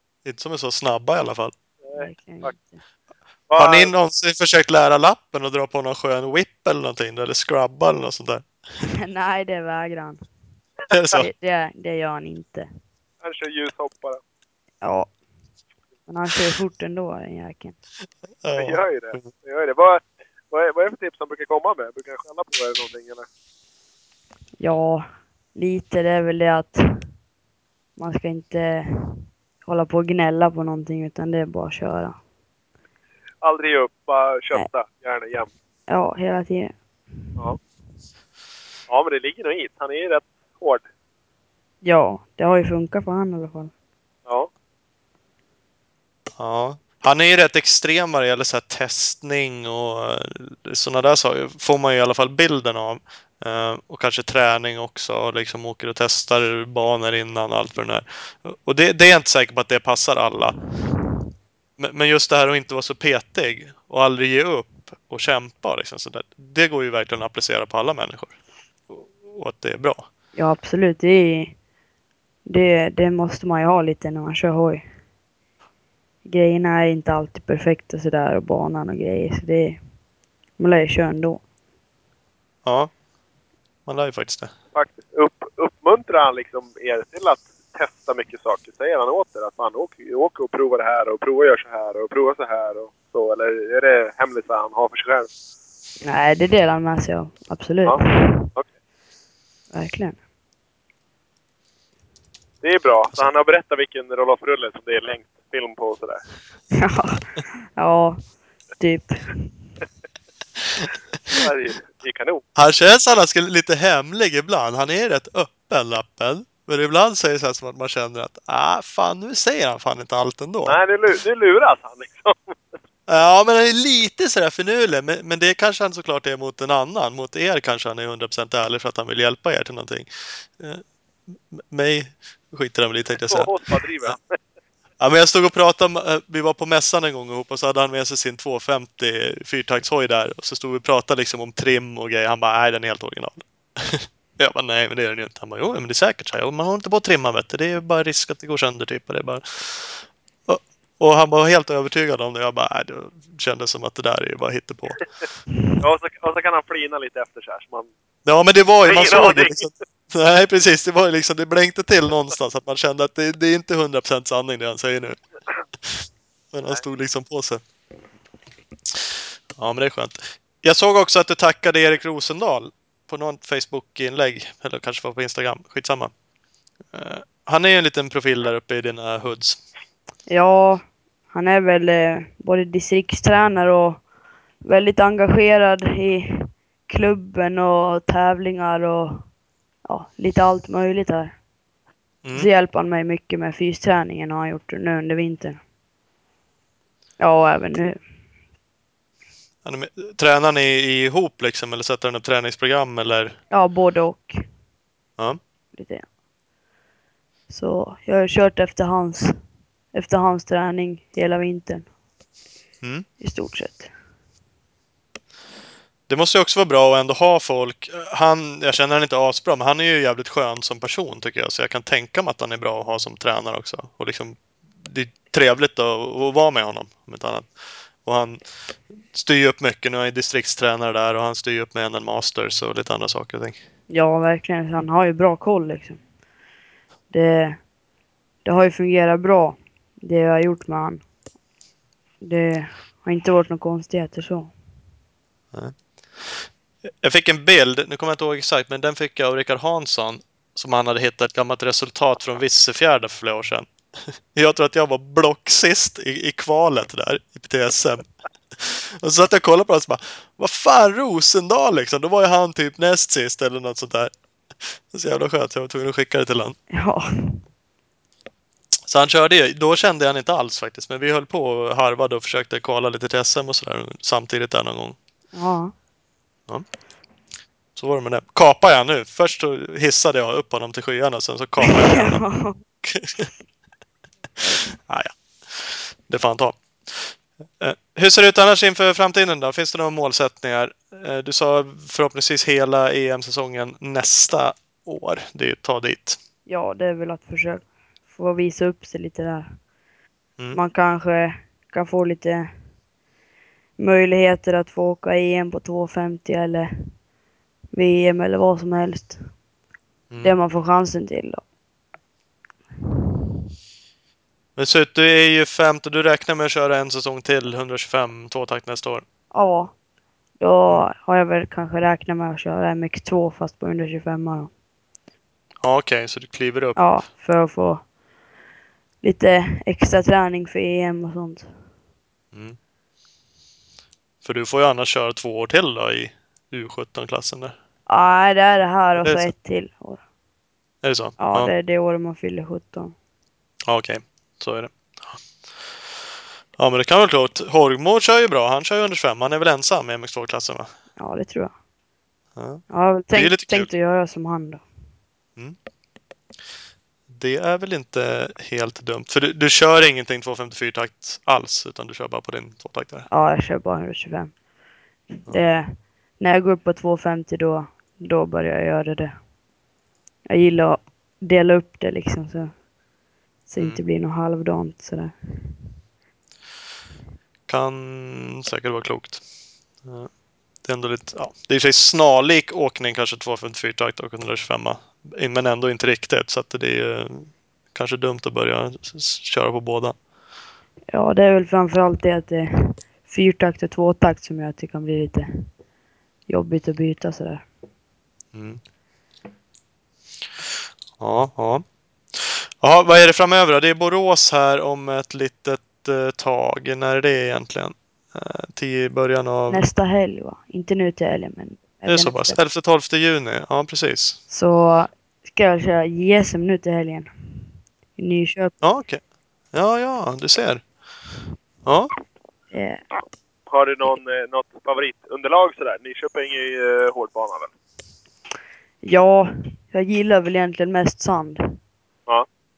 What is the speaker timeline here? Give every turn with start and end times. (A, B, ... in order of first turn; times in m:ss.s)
0:00.2-0:01.5 A
0:01.8-0:02.5 B
0:01.9-0:02.8 C
0:03.5-0:03.9 B
0:03.6-0:08.5 A
0:09.0-0:10.2 C
0:10.9-0:11.3 A
0:11.1-0:12.7 C
0:13.2-0:14.2 B
0:14.8-0:15.2 C
0:16.1-0:17.8 C
0:18.4-0:19.3 A
0:18.5-0:23.2 B
0:24.6-0:27.0 C
0:28.0-0:32.2 C
0:33.4-0:35.5 B
0:35.9-0:36.8 C
0:38.9-0:40.8 B
0:41.8-0:43.7 C
0:46.4-1:00.6 A
1:01.8-1:08.3 A
1:08.9-1:10.0 A
1:10.3-1:11.6 C
1:12.4-1:14.8 C
1:16.2-1:19.8 C
1:20.6-1:21.4 C
1:22.6-1:22.9 A
1:23.8-1:24.5 A
1:24.7-1:35.3 B
1:36.0-1:38.5 C
1:39.7-1:40.2 C
1:42.6-1:46.2 B
1:46.8-1:49.5 C
1:51.3-1:52.4 B
1:52.5-2:00.8 A
2:00.6-2:02.6 B
2:03.1-2:13.5 A
2:13.2-2:14.4 B
2:15.0-2:35.0 A
2:35.8-2:37.9 B
2:38.2-2:45.2 A
2:38.8-2:39.7 B
2:45.8-2:47.6 A
2:49.6-2:56.1 A
2:56.9-2:59.6 A
3:00.3-3:04.0 C
3:04.6-3:09.3 C
3:09.8-3:11.4 C
3:12.2-3:12.5 A
3:12.3-3:15.6 C
3:17.2-3:18.0 C
3:19.6-3:23.4 A
3:23.5-3:24.4 C
3:25.7-3:26.1 C
3:27.5-3:29.4 C
3:29.9-3:31.9 C
3:33.2-3:33.9 C
3:36.1-3:53.6 A
3:53.9-3:56.0 C
3:57.1-3:57.7 C
3:58.4-4:01.0 C
4:02.2-4:04.5 C
4:05.5-4:06.5 A
4:07.0-4:26.6 A
4:26.7-4:27.4 C
4:28.9-4:35.0 A
4:35.3-4:35.7 C
4:37.8-4:43.3 A
4:41.6-4:42.6 C
4:44.8-4:56.2 A
4:56.4-4:59.6 C
5:00.5-5:02.5 C
5:03.8-5:07.0 C
5:07.7-5:09.3 C
5:10.1-5:10.3 A
5:10.2-5:11.4 C
5:14.6-5:19.0 A
5:19.3-5:19.7 C
5:20.4-5:24.5 C
5:25.6-5:27.0 A
5:26.8-5:27.9 C
5:29.0-5:31.5 C
5:32.3-5:32.6 A
5:34.2-5:37.6 A
5:37.9-5:40.0 C
5:39.0-5:39.3 A
5:40.8-5:41.5 A
5:41.2-5:42.9 C
5:43.7-5:45.2 A
5:46.6-5:50.7 A
5:51.0-5:51.5 C
5:52.4-5:53.7 A
5:52.7-5:54.6 C
5:57.1-6:03.1 A
6:03.1-6:04.4 C
6:05.2-6:09.2 C
6:10.3-6:12.6 C
6:13.5-6:15.6 C
6:17.5-6:19.2 A
6:19.8-6:30.0 A
6:30.9-6:35.5 C
6:36.3-6:37.4 C
6:38.3-6:38.6 A
6:41.0-6:49.6 A
6:49.5-6:52.4 C
6:51.9-6:54.2 A
6:54.3-6:58.6 C
6:58.6-7:00.8 A
7:01.6-7:01.9 A
7:02.5-7:02.8 C
7:03.5-7:07.5 B
7:08.8-7:11.6 C